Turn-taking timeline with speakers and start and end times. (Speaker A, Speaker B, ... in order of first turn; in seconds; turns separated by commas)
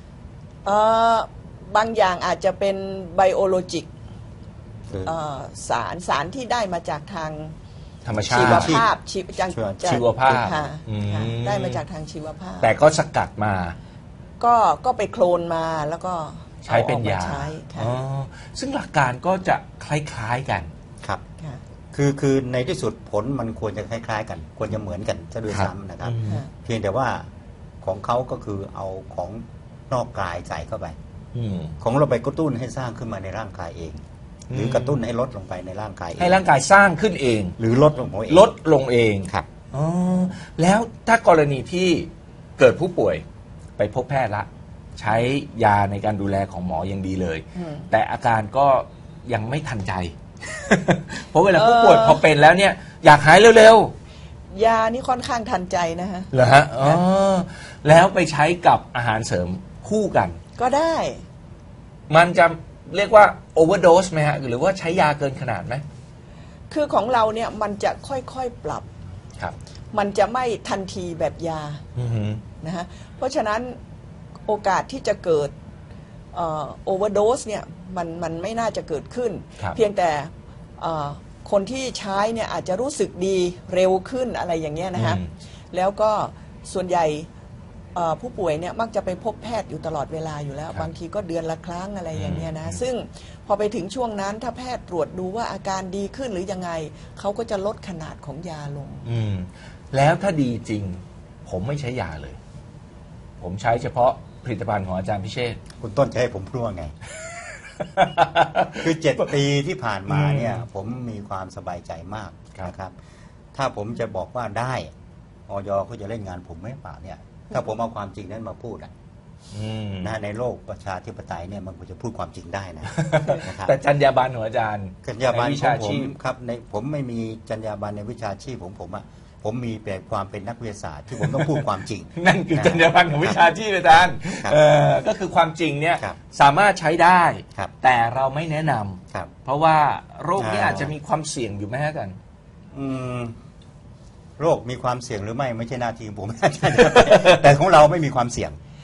Speaker A: 0.6-3.9, Speaker B: 4.9-5.1, Speaker A: 5.0-7.5, Speaker C: 8.0-8.8, Speaker B: 8.3-8.9, Speaker A: 8.3-12.7, Speaker B: 9.5-10.4, Speaker C: 9.8-11.8, Speaker C: 12.6-13.8, Speaker A: 14.4-17.9, Speaker C: 16.6-20.7, Speaker B: 21.9-27.3, Speaker C: 25.5-26.4, Speaker B: 27.8-30.9, Speaker C: 31.3-31.8, Speaker B: 31.8-36.4, Speaker C: 34.5-35.0, Speaker C: 36.2-37.5, Speaker B: 37.6-38.5, Speaker C: 38.3-43.2, Speaker C: 43.8-53.9, Speaker A: 47.5-47.9, Speaker A: 51.5-52.2, Speaker A: 54.5-57.0, Speaker C: 56.3-60.4, Speaker A: 60.6-61.2, Speaker C: 62.1-65.8, Speaker A: 66.7-68.9, Speaker A: 69.9-71.8, Speaker C: 72.0-72.4, Speaker A: 72.6-73.8, Speaker A: 74.5-75.5, Speaker A: 76.3-87.3, Speaker C: 85.0-85.3, Speaker A: 87.9-99.1, Speaker C: 92.1-92.8, Speaker C: 99.0-102.4, Speaker C: 103.4-105.6, Speaker B: 105.8-106.9, Speaker C: 107.2-109.2, Speaker B: 108.8-112.9, Speaker C: 110.1-110.6, Speaker B: 113.5-114.9, Speaker B: 115.5-118.9, Speaker C: 119.5-120.2, Speaker B: 120.0-123.7, Speaker C: 122.9-126.1, Speaker B: 125.0-133.4, Speaker C: 131.2-131.6, Speaker C: 132.2-142.2, Speaker B: 140.4-140.9, Speaker B: 142.7-143.3, Speaker B: 144.4-148.6, Speaker C: 146.7-147.4